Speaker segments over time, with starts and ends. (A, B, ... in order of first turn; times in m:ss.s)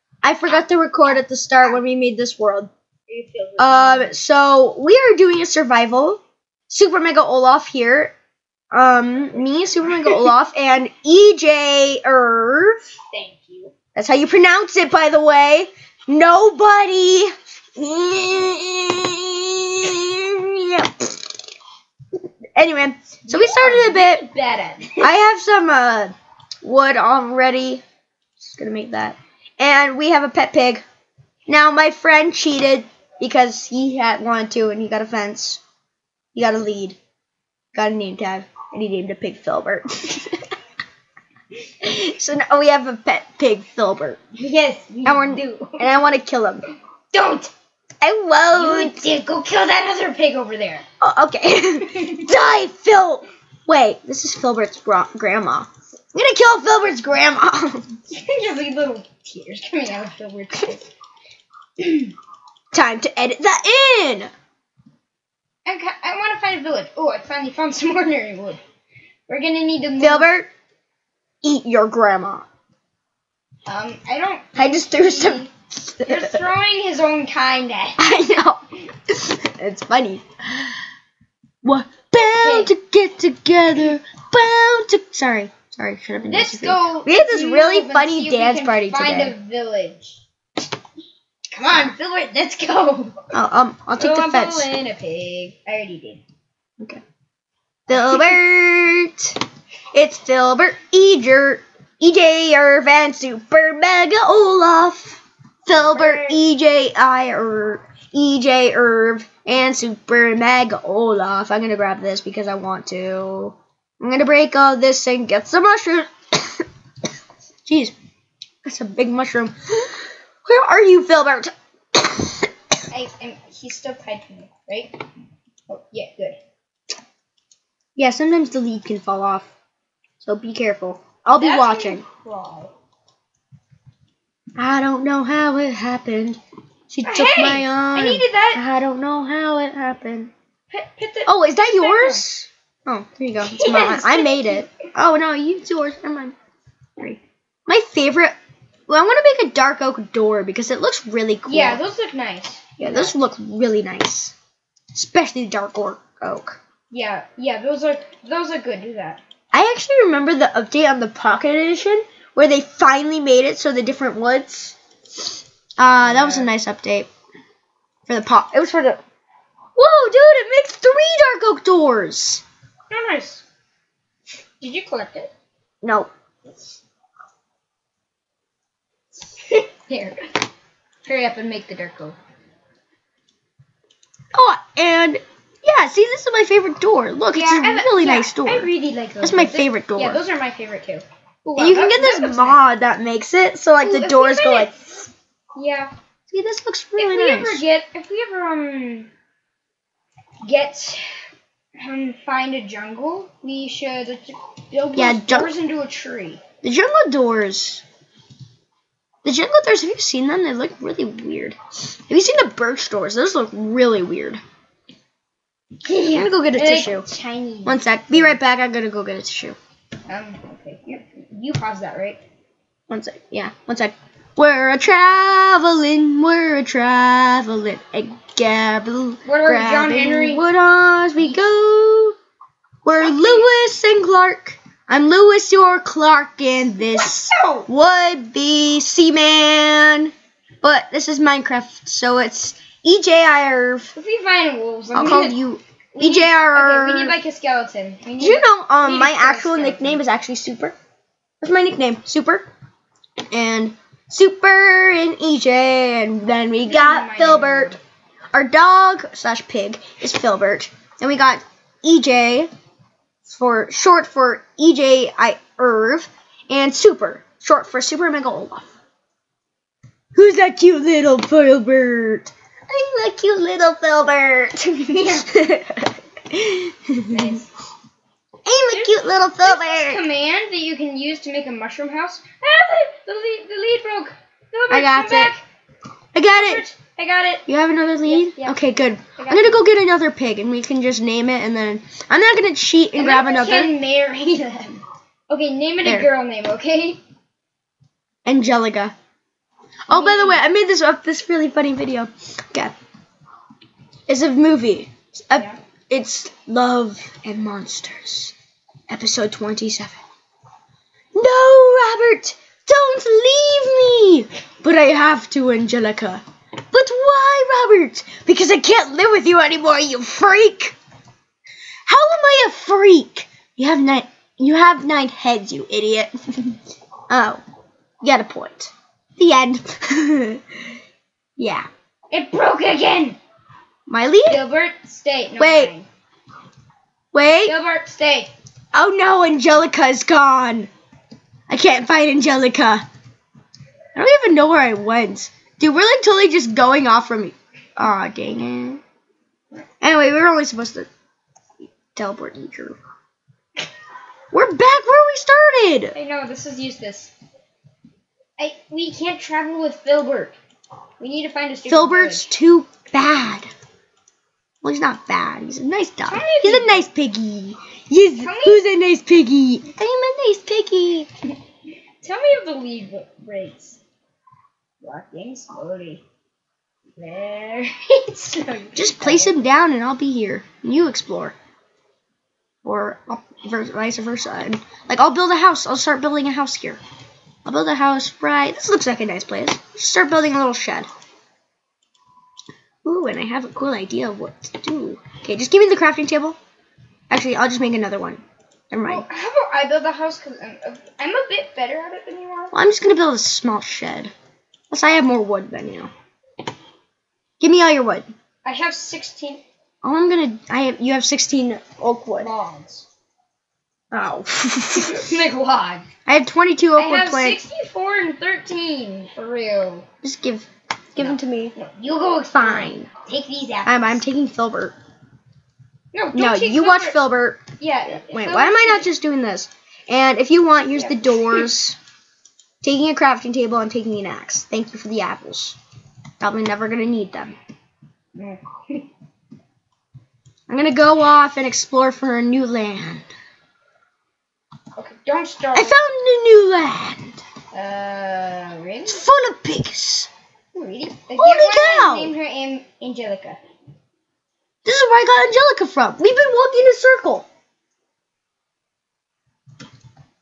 0:00.2-0:02.7 A
0:03.1-0:04.1 B
0:03.6-0:08.1 A
0:08.7-0:12.9 A
0:13.1-0:13.7 B
0:14.0-0:21.3 A
0:22.6-0:24.2 A
0:23.2-0:25.1 B
0:25.0-0:27.8 A
0:28.4-0:30.8 A
0:31.5-0:35.6 A
0:36.4-0:37.0 A
0:37.7-0:40.5 A
0:41.8-0:44.2 A
0:44.4-0:45.9 B
0:45.0-0:46.6 A
0:47.1-0:47.5 B
0:48.0-0:49.0 A
0:48.5-0:50.8 B
0:51.0-0:58.0 A
0:51.9-0:52.3 B
0:58.1-1:00.9 B
1:01.8-1:02.1 B
1:02.7-1:04.3 A
1:05.7-1:08.6 B
1:09.3-1:10.3 B
1:10.0-1:10.5 A
1:11.4-1:12.5 A
1:13.7-1:15.5 B
1:14.6-1:16.4 A
1:16.0-1:18.0 B
1:18.0-1:20.8 A
1:21.6-1:29.3 A
1:22.3-1:22.7 B
1:26.2-1:30.2 B
1:31.5-1:33.3 B
1:33.3-1:34.7 A
1:34.0-1:36.2 B
1:37.9-1:56.7 A
1:45.7-1:46.4 B
1:57.7-1:57.9 A
1:58.6-2:02.5 A
2:02.9-2:05.0 B
2:05.7-2:06.4 B
2:08.0-2:09.5 A
2:10.2-2:12.0 A
2:11.4-2:12.7 B
2:14.6-2:20.3 A
2:17.0-2:18.6 B
2:20.7-2:22.2 B
2:21.3-2:26.4 A
2:23.5-2:24.7 B
2:27.0-2:28.4 A
2:28.9-2:31.8 A
2:31.5-2:33.2 B
2:32.8-2:34.3 A
2:34.9-2:36.6 A
2:36.9-2:39.2 B
2:39.5-2:47.1 A
2:46.0-2:46.5 B
2:48.1-2:49.0 A
2:49.8-2:52.4 A
2:52.9-2:53.4 B
2:54.6-2:55.3 B
2:55.8-2:56.1 A
2:59.5-3:00.3 B
3:01.1-3:02.2 B
3:04.3-3:08.7 A
3:07.3-3:12.6 B
3:09.2-3:10.2 A
3:11.6-3:14.8 A
3:13.8-3:15.0 B
3:15.6-3:15.9 B
3:16.3-3:17.6 A
3:17.0-3:19.1 B
3:20.4-3:21.0 B
3:21.8-3:26.4 B
3:24.9-3:25.5 A
3:26.6-3:27.8 A
3:29.2-3:31.6 A
3:32.1-3:34.4 A
3:35.8-3:38.4 B
3:36.1-3:37.1 A
3:37.7-3:39.6 A
3:40.1-3:42.2 B
3:42.9-3:52.2 A
3:49.2-3:50.4 B
3:51.2-3:51.4 B
3:52.8-4:03.9 A
3:52.9-3:53.5 B
3:57.0-3:57.7 B
4:04.0-4:05.4 B
4:04.9-4:07.2 A
4:05.9-4:10.0 B
4:08.2-4:10.8 A
4:11.4-4:12.5 A
4:13.3-4:17.8 A
4:16.6-4:17.8 B
4:18.3-4:22.5 A
4:23.2-4:28.7 A
4:30.1-4:37.4 A
4:34.9-4:35.3 B
4:37.1-4:37.4 B
4:38.5-4:40.0 A
4:38.7-4:45.4 B
4:44.7-4:45.3 A
4:46.1-4:46.6 A
4:46.3-4:47.5 B
4:47.5-4:53.8 A
4:48.0-4:48.6 B
4:49.2-4:49.6 B
4:53.0-4:57.0 B
4:55.8-4:56.1 A
4:58.2-4:59.0 A
4:59.9-5:02.7 A
4:59.9-5:00.4 B
5:04.1-5:08.3 A
5:05.3-5:05.6 B
5:08.9-5:10.0 A
5:11.1-5:20.8 A
5:21.9-5:27.4 A
5:28.0-5:30.6 A
5:31.4-5:31.7 A
5:32.1-5:33.2 B
5:33.9-5:34.4 A
5:34.3-5:35.9 B
5:35.4-5:35.7 A
5:37.1-5:37.6 A
5:37.4-5:38.3 B
5:38.7-5:40.7 A
5:41.5-5:42.9 A
5:44.0-5:48.8 A
5:49.8-5:50.9 A
5:52.0-5:52.8 A
5:54.3-5:56.0 A
5:55.9-5:57.1 B
5:58.4-6:00.4 B
6:01.0-6:02.3 B
6:01.7-6:03.5 A
6:04.6-6:11.1 A
6:06.1-6:06.9 B
6:08.2-6:08.6 B
6:12.0-6:13.8 B
6:14.8-6:16.0 B
6:17.0-6:19.4 B
6:18.8-6:21.4 A
6:22.6-6:26.8 A
6:27.4-6:30.9 A
6:32.8-6:36.4 A
6:37.1-6:39.1 A
6:38.9-6:42.5 B
6:42.5-6:44.1 A
6:44.7-6:45.9 A
6:47.4-6:48.1 A
6:48.4-6:49.4 B
6:49.8-6:52.3 A
6:52.2-6:52.9 B
6:53.9-6:55.1 A
6:54.8-6:55.9 B
6:56.1-6:57.4 A
6:56.8-6:59.9 B
7:00.0-7:01.5 A
7:01.0-7:04.0 B
7:02.3-7:02.9 A
7:03.7-7:04.8 A
7:05.9-7:07.0 B
7:06.1-7:07.4 A
7:07.6-7:08.9 B
7:08.1-7:11.8 A
7:10.8-7:11.4 B
7:12.6-7:15.6 A
7:16.2-7:17.4 A
7:18.2-7:18.9 B
7:20.5-7:23.1 A
7:24.8-7:25.8 B
7:25.6-7:27.2 A
7:27.5-7:29.0 B
7:28.9-7:30.1 A
7:30.5-7:33.4 B
7:31.2-7:32.1 A
7:34.6-7:37.3 A